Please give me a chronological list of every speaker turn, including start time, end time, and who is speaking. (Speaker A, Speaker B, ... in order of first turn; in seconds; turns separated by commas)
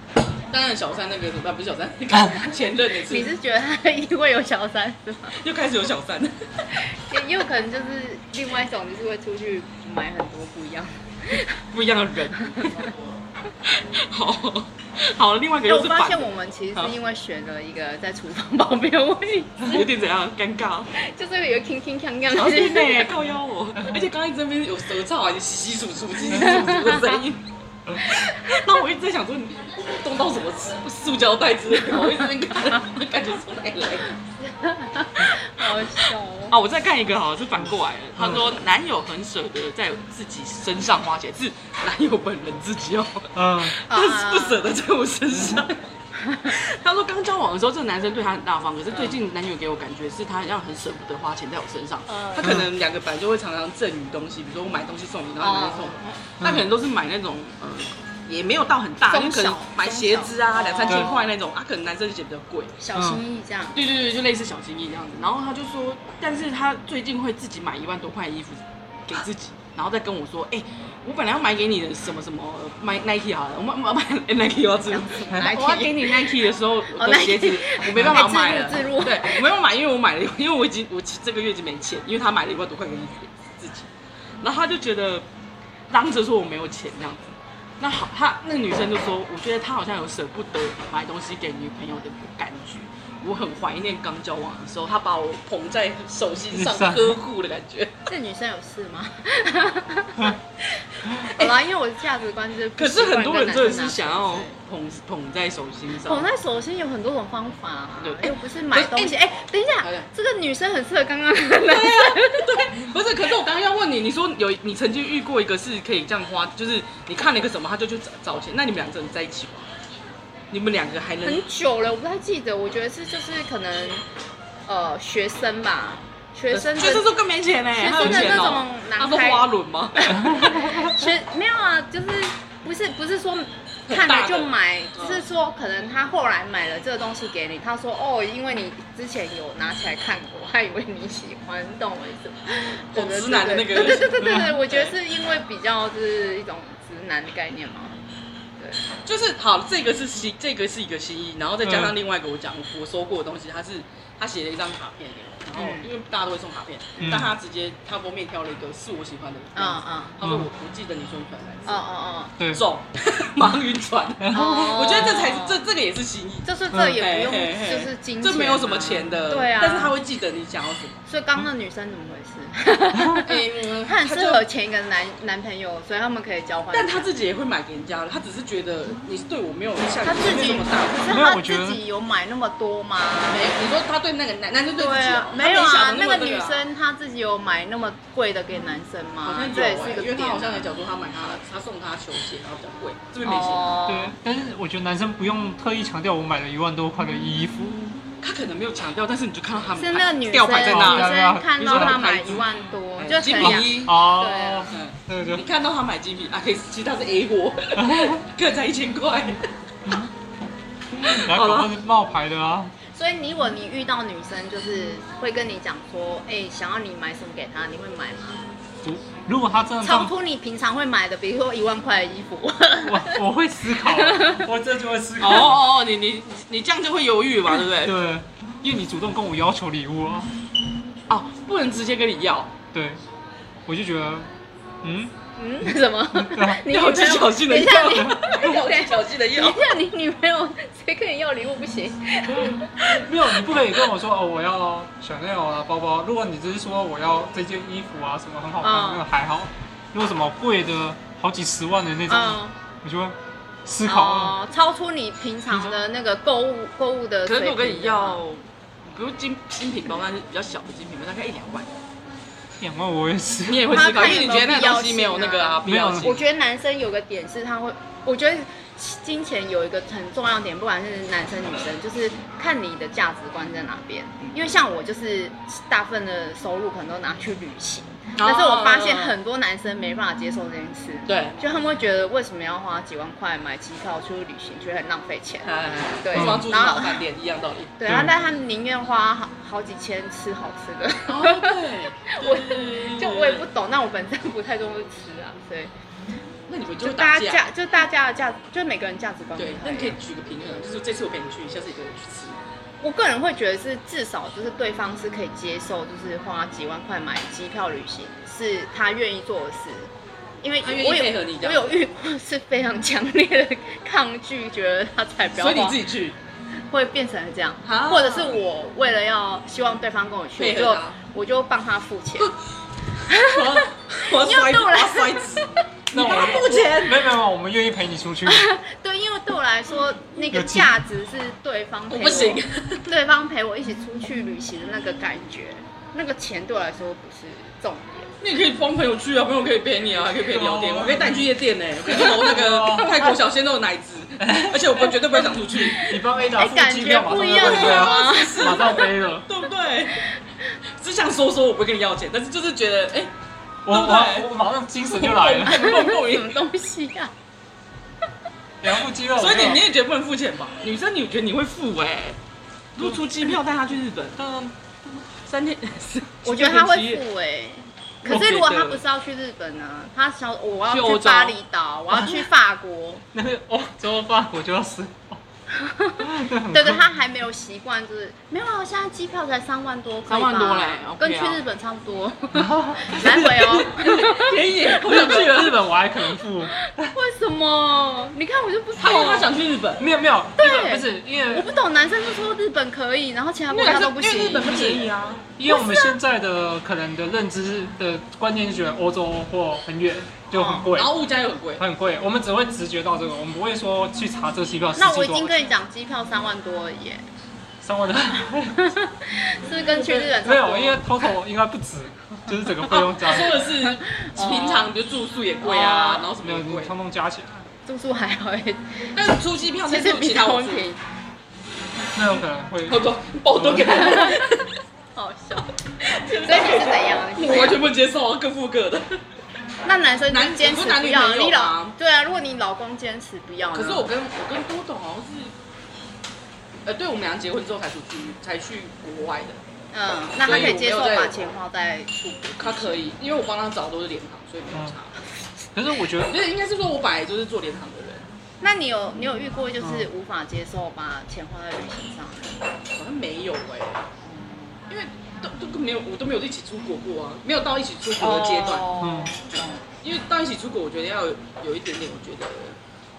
Speaker A: 0.5-3.3, Speaker B: 2.1-2.5, Speaker C: 3.1-5.4, Speaker A: 5.3-6.5, Speaker C: 6.9-11.6, Speaker A: 11.7-12.9, Speaker C: 12.4-12.7, Speaker A: 13.7-16.9, Speaker C: 15.7-19.9, Speaker A: 19.6-20.9, Speaker C: 20.9-23.1, Speaker A: 22.3-27.4, Speaker C: 26.3-27.2, Speaker A: 27.9-34.1, Speaker C: 28.0-28.7, Speaker C: 34.4-36.5, Speaker A: 35.6-45.8, Speaker B: 38.1-38.4, Speaker B: 43.3-43.7, Speaker C: 43.9-44.7, Speaker C: 46.1-46.5, Speaker A: 46.5-62.8, Speaker C: 52.1-52.6, Speaker B: 52.4-52.7, Speaker C: 55.4-56.2, Speaker B: 56.4-56.6, Speaker C: 59.1-61.3, Speaker C: 62.8-63.8, Speaker A: 63.7-83.9, Speaker C: 74.9-76.3, Speaker C: 76.9-79.5, Speaker A: 84.4-85.2, Speaker A: 85.9-98.0, Speaker B: 96.5-97.2, Speaker C: 98.1-100.4, Speaker A: 101.2-101.6, Speaker C: 101.2-104.5, Speaker A: 102.8-106.3, Speaker C: 106.0-112.7, Speaker A: 108.0-109.2, Speaker A: 109.8-110.1, Speaker A: 111.6-119.7, Speaker A: 120.5-121.4, Speaker C: 121.2-124.0, Speaker C: 124.7-127.1, Speaker A: 126.5-130.6, Speaker C: 127.7-148.0, Speaker A: 133.9-135.2, Speaker A: 142.9-144.9, Speaker B: 144.2-144.5, Speaker A: 149.1-161.8, Speaker B: 151.6-151.9, Speaker C: 155.5-155.9, Speaker B: 157.0-157.3, Speaker C: 159.5-160.2, Speaker B: 160.2-160.5, Speaker C: 161.7-162.3, Speaker A: 162.5-171.0, Speaker B: 164.2-164.7, Speaker C: 164.3-165.6, Speaker C: 166.4-169.9, Speaker C: 171.1-177.1, Speaker A: 173.2-174.4, Speaker A: 176.7-181.2, Speaker C: 180.0-183.5, Speaker B: 181.1-181.8, Speaker A: 183.3-186.7, Speaker C: 184.8-190.7, Speaker A: 189.2-193.8, Speaker C: 193.2-194.2, Speaker B: 193.9-198.0, Speaker A: 198.2-204.0, Speaker C: 199.8-204.7, Speaker B: 200.6-202.0, Speaker B: 203.4-205.4, Speaker A: 204.7-209.4, Speaker B: 207.8-208.2, Speaker A: 210.9-211.7, Speaker B: 211.0-212.7, Speaker C: 212.9-218.4, Speaker B: 218.8-220.1, Speaker C: 219.8-223.2, Speaker B: 222.8-225.7, Speaker C: 223.8-224.4, Speaker A: 225.2-228.0, Speaker B: 227.7-230.3, Speaker A: 231.1-232.5, Speaker B: 232.7-233.0, Speaker B: 233.7-234.3, Speaker B: 234.8-235.1, Speaker C: 235.4-243.1, Speaker B: 236.1-236.6, Speaker A: 236.7-239.7, Speaker B: 242.8-254.3, Speaker C: 248.6-249.0, Speaker C: 252.1-252.5, Speaker C: 253.8-258.2, Speaker B: 255.5-255.8, Speaker A: 257.2-261.7, Speaker B: 262.6-263.8, Speaker A: 263.5-266.2, Speaker C: 263.7-287.0, Speaker B: 265.6-266.1, Speaker A: 278.2-279.1, Speaker A: 281.1-281.4, Speaker A: 285.4-287.8, Speaker B: 286.1-286.4, Speaker C: 287.8-295.7, Speaker B: 287.9-288.1, Speaker A: 291.1-293.4, Speaker A: 296.5-297.4, Speaker C: 296.8-300.0, Speaker A: 299.4-302.4, Speaker C: 302.8-309.9, Speaker C: 310.4-315.8, Speaker A: 310.6-311.8, Speaker A: 315.4-316.1, Speaker C: 316.7-322.3, Speaker A: 317.6-318.4, Speaker A: 320.4-321.0, Speaker C: 323.0-325.4, Speaker A: 323.2-327.1, Speaker B: 325.9-328.5, Speaker C: 328.2-338.1, Speaker B: 330.3-330.8, Speaker A: 331.9-332.9, Speaker A: 338.2-345.9, Speaker B: 340.3-341.2, Speaker B: 342.0-343.0, Speaker B: 344.2-344.9, Speaker B: 345.6-349.3, Speaker C: 345.7-348.8, Speaker A: 347.1-350.0, Speaker A: 350.8-353.1, Speaker B: 353.6-355.7, Speaker A: 353.7-354.3, Speaker A: 354.9-356.4, Speaker C: 355.4-357.1, Speaker B: 358.6-359.6, Speaker A: 359.1-362.2, Speaker A: 362.8-364.3, Speaker B: 364.2-364.5, Speaker A: 365.2-367.0, Speaker C: 366.2-373.0, Speaker A: 368.0-368.8, Speaker A: 370.7-371.4, Speaker B: 371.9-372.2, Speaker B: 373.1-375.2, Speaker C: 375.5-384.4, Speaker B: 376.0-376.8, Speaker A: 380.1-381.4, Speaker B: 382.3-383.9, Speaker A: 383.0-385.7, Speaker B: 384.8-386.9, Speaker C: 386.6-389.3, Speaker A: 388.8-389.9, Speaker B: 389.8-391.5, Speaker C: 390.4-394.8, Speaker A: 393.5-395.3, Speaker B: 395.4-400.9, Speaker C: 395.4-396.0, Speaker C: 400.3-400.7, Speaker A: 400.7-401.6, Speaker B: 401.6-405.5, Speaker C: 404.8-407.0, Speaker B: 407.6-408.7, Speaker C: 408.6-410.8, Speaker A: 409.6-410.2, Speaker B: 410.2-413.4, Speaker A: 412.6-416.7, Speaker C: 413.8-414.7, Speaker C: 415.4-416.1, Speaker B: 416.2-417.5, Speaker C: 417.6-418.6, Speaker A: 418.9-420.7, Speaker C: 419.6-420.8, Speaker B: 421.9-423.9, Speaker A: 422.7-424.5, Speaker C: 423.6-424.2, Speaker C: 424.9-425.5, Speaker A: 425.8-428.9, Speaker C: 426.0-427.6, Speaker C: 429.6-433.9, Speaker A: 430.1-431.8, Speaker A: 433.5-435.3, Speaker A: 436.6-439.4, Speaker C: 439.7-442.8, Speaker A: 440.2-441.1, Speaker A: 442.4-444.9, Speaker B: 445.5-446.1, Speaker A: 446.0-448.1, Speaker C: 448.4-452.4, Speaker B: 449.6-449.9, Speaker A: 452.7-453.9, Speaker C: 454.0-454.6, Speaker A: 454.7-458.7, Speaker C: 458.0-459.6, Speaker B: 458.8-459.1, Speaker A: 459.7-462.6